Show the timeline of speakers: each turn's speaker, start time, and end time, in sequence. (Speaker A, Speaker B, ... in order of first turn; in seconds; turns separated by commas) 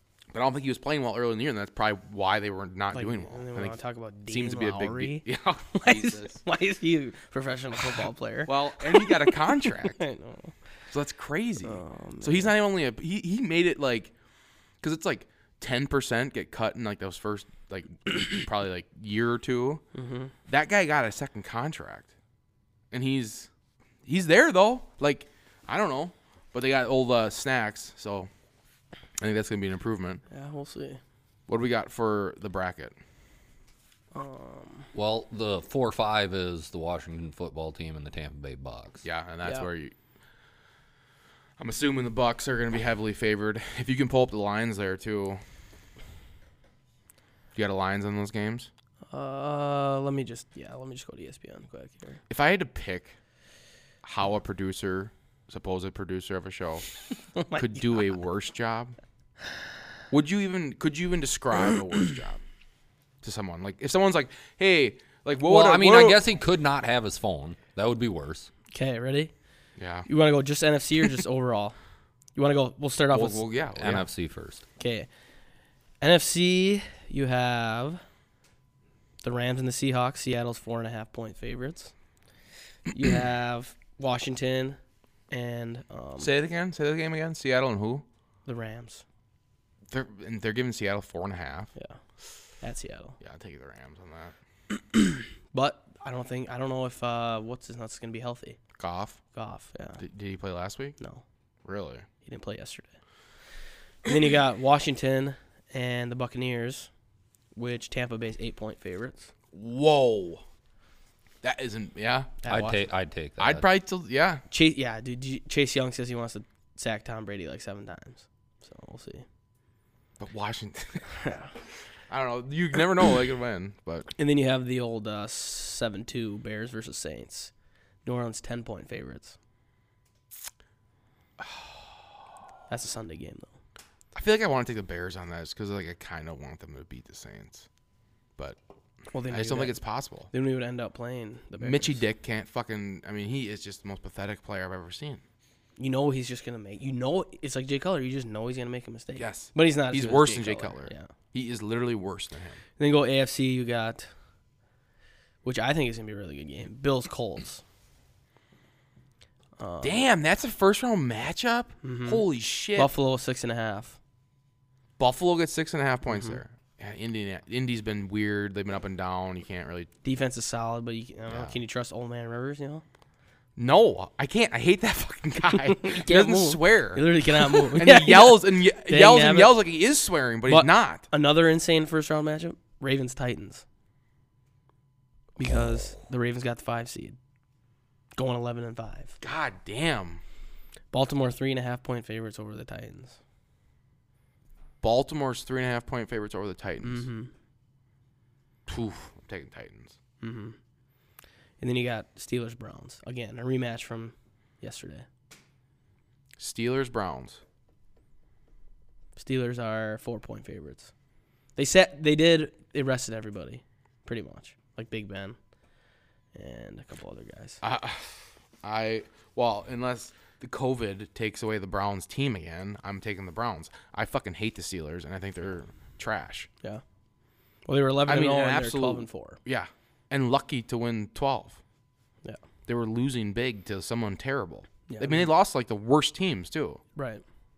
Speaker A: 0.3-6.4, Speaker B: 2.9-10.5, Speaker A: 8.5-10.0, Speaker A: 10.9-14.1, Speaker B: 11.6-12.6, Speaker A: 14.8-19.8, Speaker B: 19.9-20.3, Speaker A: 20.5-22.1, Speaker A: 22.9-23.5, Speaker A: 24.1-28.3, Speaker A: 29.2-30.2, Speaker B: 30.3-31.0, Speaker A: 31.5-33.0, Speaker B: 34.1-34.9, Speaker C: 34.9-39.0, Speaker A: 39.0-39.9, Speaker A: 41.6-45.4, Speaker A: 47.5-48.7, Speaker B: 49.1-52.2, Speaker A: 52.3-53.2, Speaker A: 54.0-56.9, Speaker B: 57.4-58.0, Speaker A: 57.5-58.9, Speaker A: 60.1-62.4, Speaker A: 63.2-66.2, Speaker C: 65.4-68.5, Speaker B: 68.7-69.3, Speaker A: 69.8-70.1, Speaker B: 70.1-71.8, Speaker B: 72.3-73.5, Speaker A: 73.1-74.1, Speaker C: 73.8-74.6, Speaker B: 74.8-75.1, Speaker B: 76.0-78.0, Speaker B: 79.2-81.9, Speaker B: 82.9-84.8, Speaker B: 85.3-86.3, Speaker A: 86.2-88.0, Speaker B: 88.5-89.0, Speaker A: 89.9-91.7, Speaker B: 92.6-93.2, Speaker A: 93.2-94.3, Speaker B: 94.8-98.6, Speaker A: 98.8-99.2, Speaker B: 99.3-100.0, Speaker A: 100.0-101.0, Speaker A: 101.7-102.1, Speaker B: 102.2-103.0, Speaker B: 104.0-106.9, Speaker B: 107.5-109.3, Speaker A: 109.5-110.4, Speaker A: 111.4-112.3, Speaker B: 112.4-112.9, Speaker C: 112.5-113.7, Speaker A: 113.4-114.4, Speaker B: 114.5-119.2, Speaker A: 120.2-121.1, Speaker B: 121.2-121.5, Speaker A: 122.1-124.1, Speaker B: 124.2-127.5, Speaker B: 128.1-129.4, Speaker B: 132.7-133.5, Speaker A: 134.1-137.7, Speaker B: 139.1-142.0, Speaker A: 139.3-140.3, Speaker A: 141.6-145.2, Speaker B: 145.8-151.1, Speaker A: 149.2-152.6, Speaker B: 152.8-154.1, Speaker B: 155.4-157.6, Speaker B: 159.6-160.0, Speaker A: 159.8-162.9, Speaker B: 161.8-164.0, Speaker A: 165.0-169.9, Speaker B: 166.1-166.4, Speaker B: 170.0-172.8, Speaker A: 171.3-171.6, Speaker A: 173.6-181.1, Speaker B: 175.7-179.6, Speaker B: 180.5-183.7, Speaker B: 185.4-187.2, Speaker B: 188.2-189.2, Speaker A: 189.2-190.2, Speaker B: 190.9-193.2, Speaker A: 194.8-197.1, Speaker B: 196.8-197.3, Speaker A: 198.7-200.0, Speaker B: 200.2-200.6, Speaker B: 201.6-205.1, Speaker A: 206.4-207.4, Speaker B: 209.2-210.9, Speaker B: 211.6-215.4, Speaker B: 216.3-217.6, Speaker A: 217.6-226.5, Speaker B: 227.7-229.4, Speaker A: 228.1-231.6, Speaker A: 232.7-236.8, Speaker B: 234.9-235.3, Speaker B: 237.0-237.2